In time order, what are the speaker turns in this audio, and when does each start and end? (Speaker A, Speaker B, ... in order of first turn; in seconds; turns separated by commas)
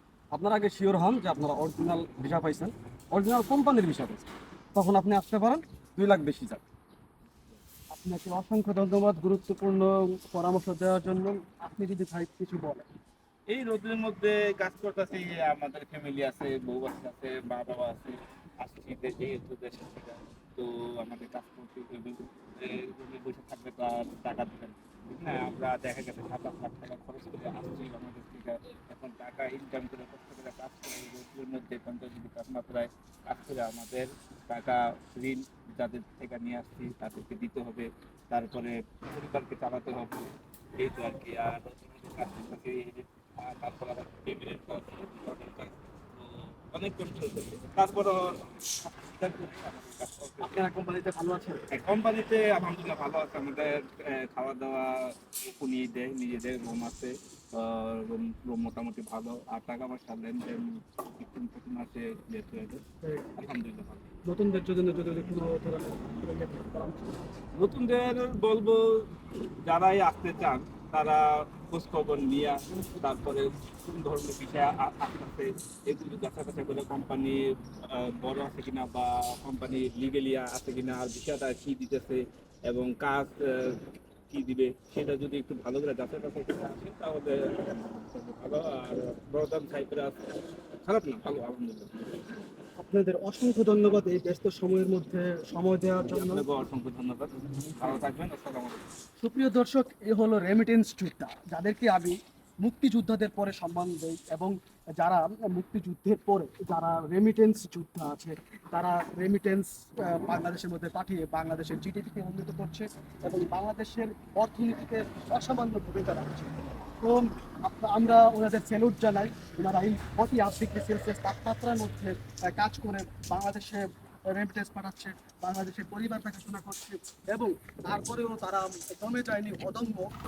Speaker A: 0.3-6.6, Speaker B: 7.9-12.8, Speaker C: 13.5-50.6, Speaker B: 50.4-51.6, Speaker C: 51.7-62.8, Speaker B: 63.0-63.3, Speaker C: 63.4-64.1, Speaker B: 64.2-67.2, Speaker C: 67.6-92.2, Speaker B: 92.8-96.5, Speaker C: 96.0-98.8, Speaker B: 99.2-130.1